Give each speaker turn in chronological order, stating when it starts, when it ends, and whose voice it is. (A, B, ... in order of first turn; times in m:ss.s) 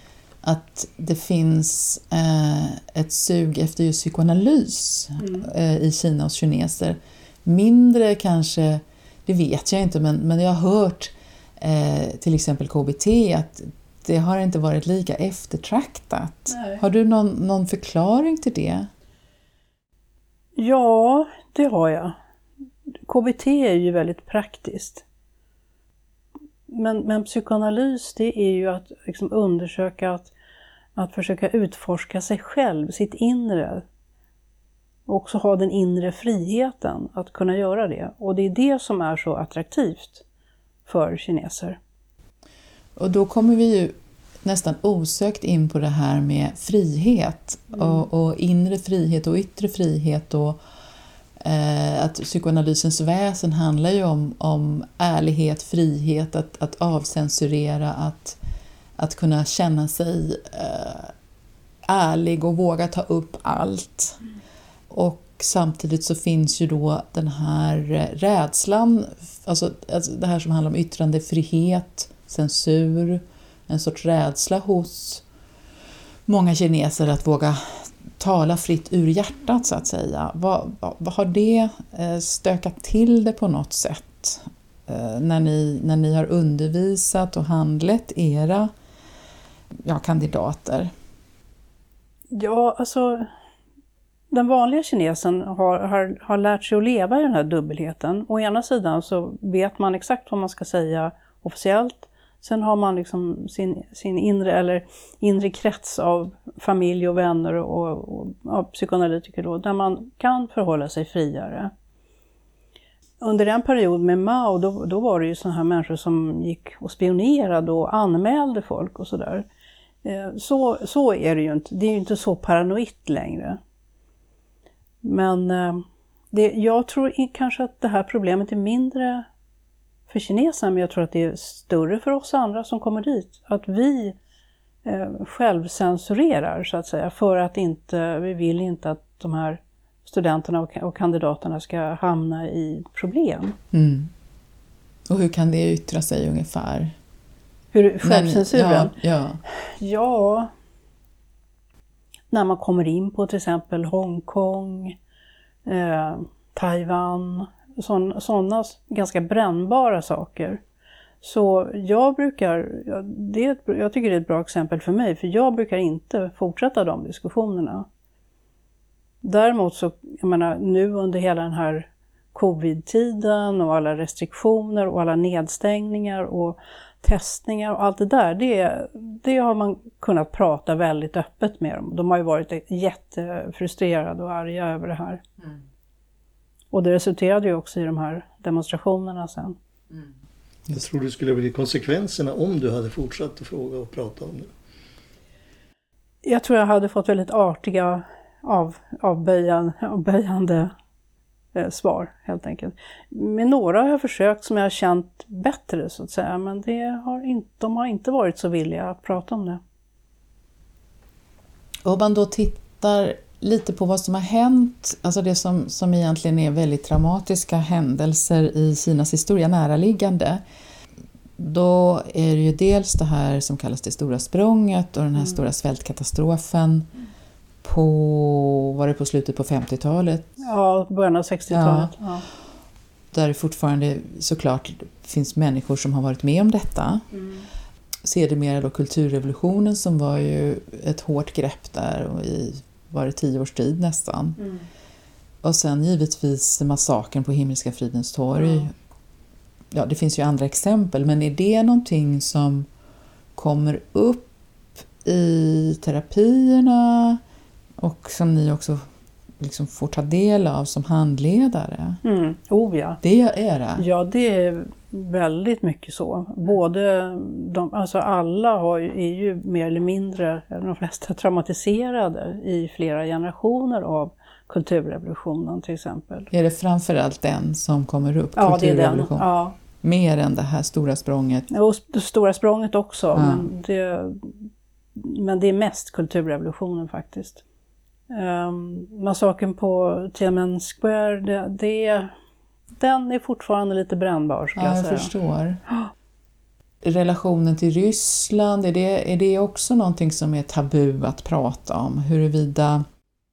0:00.4-0:18.9 A
0:05.2-0:05.5 B
0:16.5-0:16.8 B
0:20.6-0:22.2 B
0:23.0-0:25.0 B
0:26.7-0:30.3 B
0:31.0-0:33.8 B
0:35.1-0:40.2 B
0:40.9-0:41.8 B
0:43.0-0:50.6 A
0:47.8-0:48.0 B
0:51.4-0:58.4 A
0:59.0-1:01.1 A
1:01.9-1:04.2 A
1:04.9-1:15.2 A
1:16.3-1:28.7 A
1:29.8-1:30.9 A
1:32.3-1:33.3 B
1:34.3-1:51.7 B
1:53.2-1:59.4 B
2:00.0-2:03.6 B
2:05.0-2:09.2 B
2:10.1-2:14.2 B
2:14.8-2:23.6 B
2:23.7-2:24.1 A
2:25.1-2:26.9 A
2:27.7-2:28.9 B
2:28.0-2:29.4 A
2:29.6-2:30.5 B
2:32.3-2:35.0 B
2:35.6-2:40.6 B
2:41.2-2:47.9 B
2:49.2-3:05.2 B
3:06.7-3:09.6 B
3:10.7-3:14.5 C
3:16.2-3:20.7 B
3:21.5-3:29.6 B
3:31.8-3:40.4 A
3:41.4-3:46.9 A
3:47.6-3:50.4 A
3:50.4-3:52.2 B
3:51.5-3:51.9 A
3:53.1-3:57.1 A
3:57.1-3:57.4 B
3:58.0-4:04.4 A
4:04.4-4:04.6 B
4:05.4-4:08.7 A
4:08.4-4:08.6 B
4:09.7-4:12.7 A
4:13.4-4:17.2 A
4:17.8-4:18.8 A
4:19.4-4:22.0 A
4:22.0-4:23.0 B
4:23.0-4:23.8 A
4:23.8-4:36.3 B
4:36.3-4:41.5 A
4:38.4-4:39.6 B
4:41.5-4:47.4 B
4:43.1-4:43.5 A
4:48.1-4:52.1 B
4:52.8-4:55.1 B
4:54.6-4:55.6 A
4:56.8-5:02.8 A